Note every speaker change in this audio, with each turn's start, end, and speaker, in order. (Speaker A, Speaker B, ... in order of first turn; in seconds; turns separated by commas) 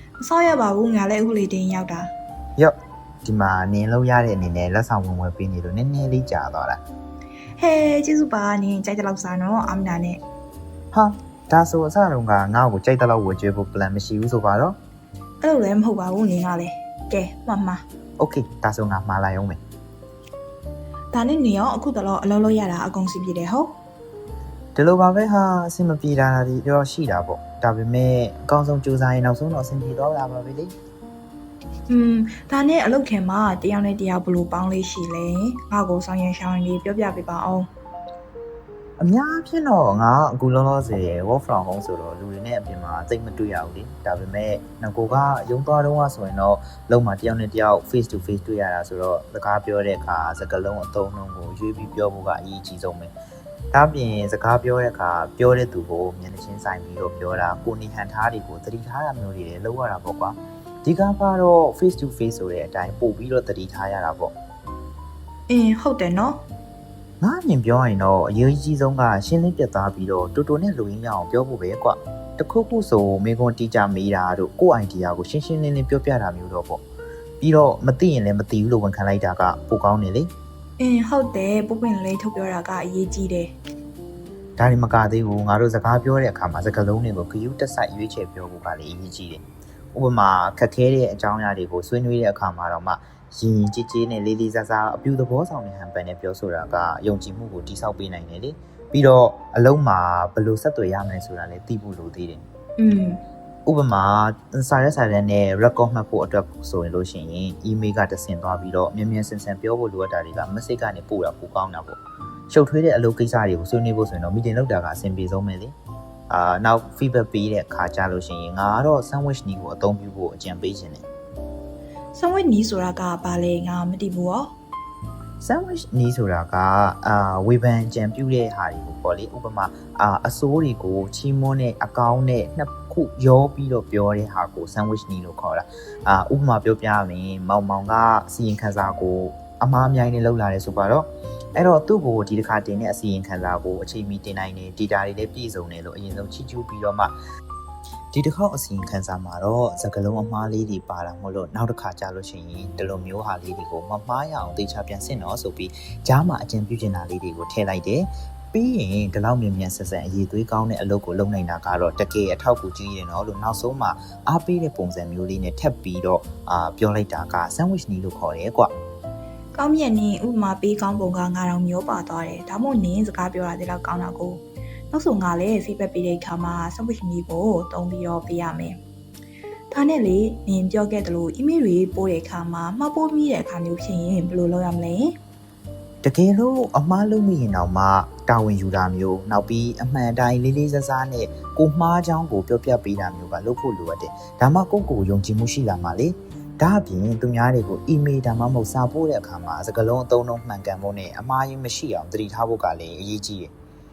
Speaker A: 0.2-2.1, Speaker B: 2.5-6.8, Speaker A: 7.6-10.2, Speaker B: 10.9-14.8, Speaker A: 15.4-17.8, Speaker B: 18.2-19.6, Speaker A: 21.1-23.7, Speaker B: 24.7-30.7, Speaker A: 31.9-37.7, Speaker B: 39.0-53.1, Speaker B: 53.7-64.3, Speaker A: 65.5-66.4, Speaker B: 67.2-76.8, Speaker B: 77.4-80.3, Speaker A: 80.8-83.5, Speaker B: 84.6-89.4, Speaker B: 89.9-102.4, Speaker A: 102.8-103.2, Speaker B: 103.7-115.7, Speaker B: 116.3-121.0, Speaker A: 122.1-124.5, Speaker B: 125.4-147.1, Speaker B: 148.1-168.7, Speaker A: 169.5-178.8, Speaker A: 179.7-185.1, Speaker B: 186.0-203.5